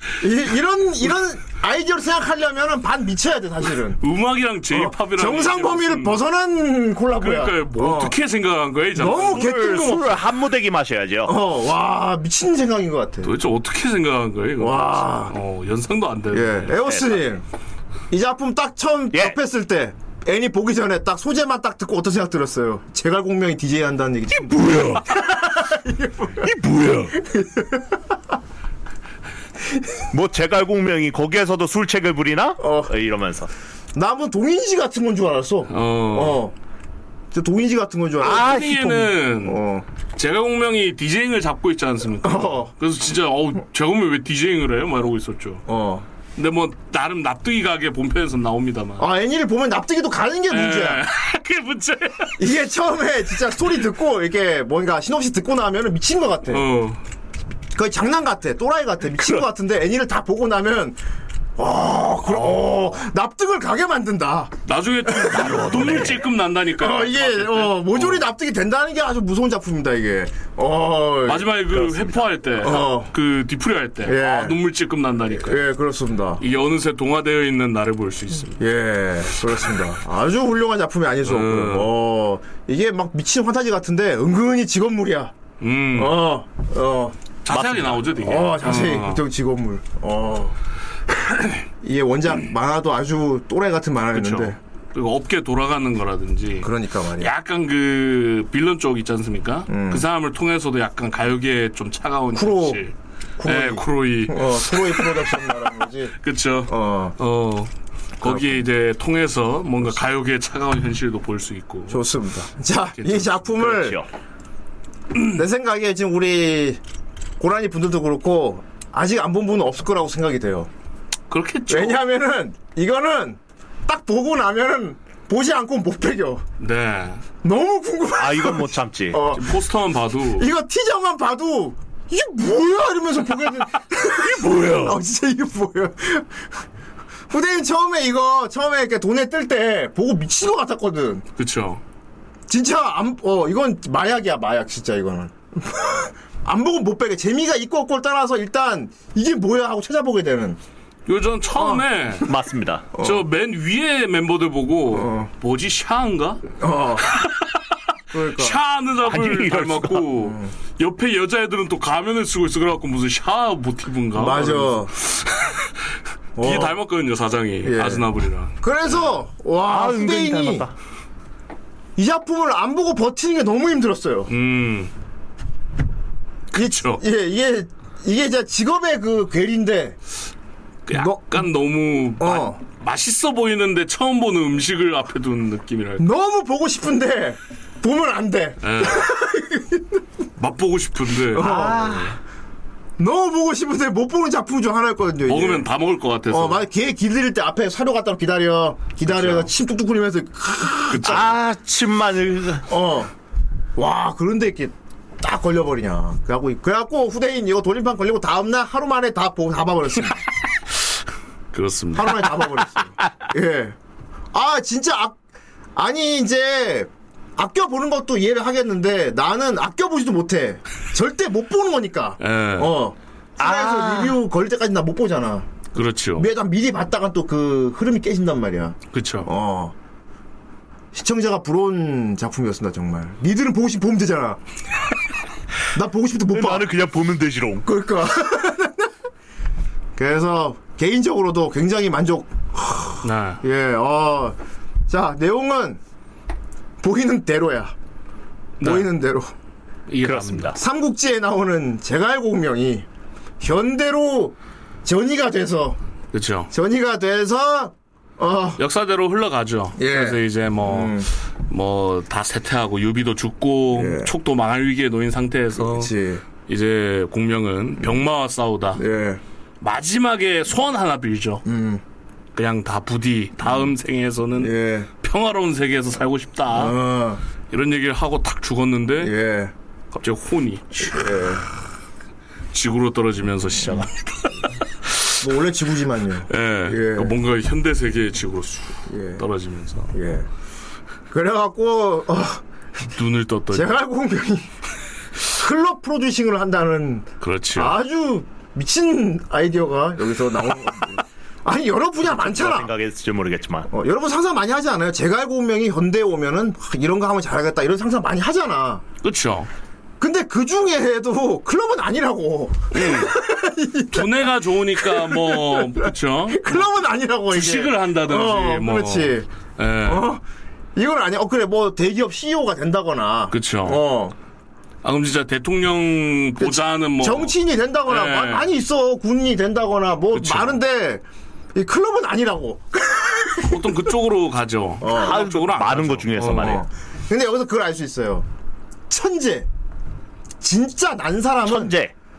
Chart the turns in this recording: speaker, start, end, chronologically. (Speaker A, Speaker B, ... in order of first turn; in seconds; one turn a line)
Speaker A: 0.2-4.0
Speaker B: 4.0-6.2
Speaker A: 4.7-8.1
Speaker B: 7.1-9.5
Speaker A: 8.9-10.2
Speaker C: 9.2-11.3
Speaker A: 11.2-13.3
Speaker B: 13.2-16.9
Speaker A: 14.6-15.3
Speaker A: 16.3-17.4
Speaker A: 18.1-26.5
Speaker C: 24.5-25.0
Speaker C: 26.4-27.1
Speaker A: 27.1-28.0
Speaker C: 30.1-33.5
Speaker A: 32.6-32.9
Speaker A: 33.9-36.5
Speaker B: 35.7-36.4
Speaker A: 37.3-39.9
Speaker C: 38.2-39.0
Speaker B: 38.4-39.6
Speaker B: 40.1-45.6
Speaker A: 42.2-42.7
Speaker A: 45.6-46.1
Speaker B: 46.4-49.0
Speaker A: 49.0-51.0
Speaker B: 50.5-52.4
Speaker A: 52.4-56.7
Speaker B: 56.5-57.0
Speaker A: 57.7-61.0
Speaker A: 61.6-64.5
Speaker B: 62.3-62.6
Speaker B: 64.7-68.2
Speaker C: 65.5-66.2
Speaker A: 66.8-71.5
Speaker B: 71.2-75.6
Speaker C: 71.7-72.4
Speaker A: 72.6-73.1
Speaker A: 74.0-74.6
Speaker A: 75.4-76.4
Speaker B: 76.4-78.6
Speaker A: 78.6-85.3
Speaker B: 81.2-81.9
Speaker B: 85.6-86.2
Speaker A: 85.9-87.2
Speaker B: 87.4-89.2
Speaker C: 87.5-88.0
Speaker A: 88.2-90.6
Speaker A: 91.8-94.6
Speaker B: 94.1-105.2
Speaker A: 96.6-97.3
Speaker A: 99.7-100.0
Speaker A: 102.3-102.8
Speaker A: 103.4-106.1
Speaker B: 106.2-112.0
Speaker A: 106.7-107.2
Speaker A: 111.9-114.0
Speaker B: 113.0-113.5
Speaker C: 113.6-114.0
Speaker A: 115.3-116.8
Speaker A: 117.4-120.7
Speaker B: 121.3-122.0
Speaker A: 121.7-126.4
Speaker B: 126.6-127.2
Speaker A: 127.4-129.5
Speaker C: 128.2-129.2
Speaker B: 129.3-130.5
Speaker A: 130.4-136.5
Speaker C: 134.3-134.9
Speaker A: 137.3-141.3
Speaker B: 141.4-141.8
Speaker A: 142.5-150.6
Speaker B: 151.1-152.3
Speaker A: 151.6-151.8
Speaker C: 152.2-152.9
Speaker A: 152.9-153.2
Speaker B: 153.0-156.4
Speaker A: 154.9-155.3
Speaker A: 156.6-157.1
Speaker B: 157.1-157.4
Speaker A: 158.1-158.6
Speaker B: 158.3-165.7
Speaker C: 159.0-160.1
Speaker A: 160.2-160.5
Speaker A: 164.1-164.9
Speaker A: 166.4-166.8
Speaker B: 166.4-169.1
Speaker A: 167.6-170.7
Speaker C: 169.7-170.7
Speaker A: 172.0-174.3
Speaker B: 174.3-174.9
Speaker B: 176.5-177.0
Speaker A: 176.5-180.0
Speaker B: 180.9-186.0
Speaker A: 180.9-181.5
Speaker A: 182.2-182.6
Speaker A: 186.0-190.0
Speaker B: 188.6-189.0
Speaker B: 190.4-191.9
Speaker A: 191.3-192.1
Speaker C: 191.4-192.1
Speaker A: 193.0-195.7
Speaker B: 195.3-196.6
Speaker A: 196.3-201.3
Speaker B: 199.0-199.5
Speaker B: 200.9-201.3
Speaker C: 201.0-202.6
Speaker A: 202.7-203.1
Speaker A: 203.8-210.2
Speaker B: 211.5-212.3
Speaker A: 211.9-213.8
Speaker A: 214.3-215.2
Speaker A: 215.7-229.7
Speaker B: 222.2-222.7
Speaker C: 223.4-224.2
Speaker B: 225.7-226.3
Speaker B: 228.9-229.3
Speaker A: 230.9-234.4
Speaker A: 235.7-236.7
Speaker C: 236.3-237.6
Speaker A: 237.7-238.9
Speaker A: 239.9-244.3
Speaker B: 243.0-243.4
Speaker A: 244.9-245.8
Speaker A: 246.8-247.7
Speaker B: 248.6-248.9
Speaker A: 248.6-249.3
Speaker B: 249.9-250.5
Speaker C: 250.0-250.5
Speaker A: 250.5-252.8
Speaker A: 253.4-255.8
Speaker B: 256.1-256.5
Speaker A: 256.5-258.6
Speaker B: 258.6-265.9
Speaker A: 259.8-261.1
Speaker A: 263.7-264.1
Speaker A: 265.6-266.2
Speaker B: 266.4-268.8
Speaker A: 268.8-269.2
Speaker B: 269.6-271.4
Speaker A: 271.4-271.8
Speaker B: 272.3-276.8
Speaker A: 274.4-274.9
Speaker A: 276.5-277.2
Speaker B: 277.5-279.1
Speaker A: 279.0-279.5
Speaker B: 279.9-281.2
Speaker A: 280.8-281.4
Speaker B: 282.5-284.1
Speaker A: 285.2-287.1
Speaker B: 286.3-289.9
Speaker A: 288.9-289.2
Speaker A: 289.9-290.3
Speaker A: 291.1-292.4
Speaker B: 292.9-293.8
Speaker A: 293.5-294.5
Speaker A: 295.3-302.7
Speaker B: 297.2-297.8
Speaker C: 302.1-303.7
Speaker A: 303.7-308.8
Speaker B: 309.0-309.5
Speaker A: 310.0-319.3
Speaker B: 312.7-313.1
Speaker B: 313.9-316.6
Speaker B: 317.3-320.1
Speaker A: 319.8-320.2
Speaker A: 320.7-324.1
Speaker B: 323.3-323.8
Speaker B: 324.8-327.3
Speaker A: 326.4-331.0
Speaker B: 327.9-328.5
Speaker B: 330.1-330.6
Speaker A: 331.5-333.7
Speaker B: 333.4-336.6
Speaker A: 334.8-335.2
Speaker C: 334.9-336.6
Speaker A: 336.4-338.3
Speaker A: 338.9-339.5
Speaker A: 340.4-341.7
Speaker C: 341.4-341.9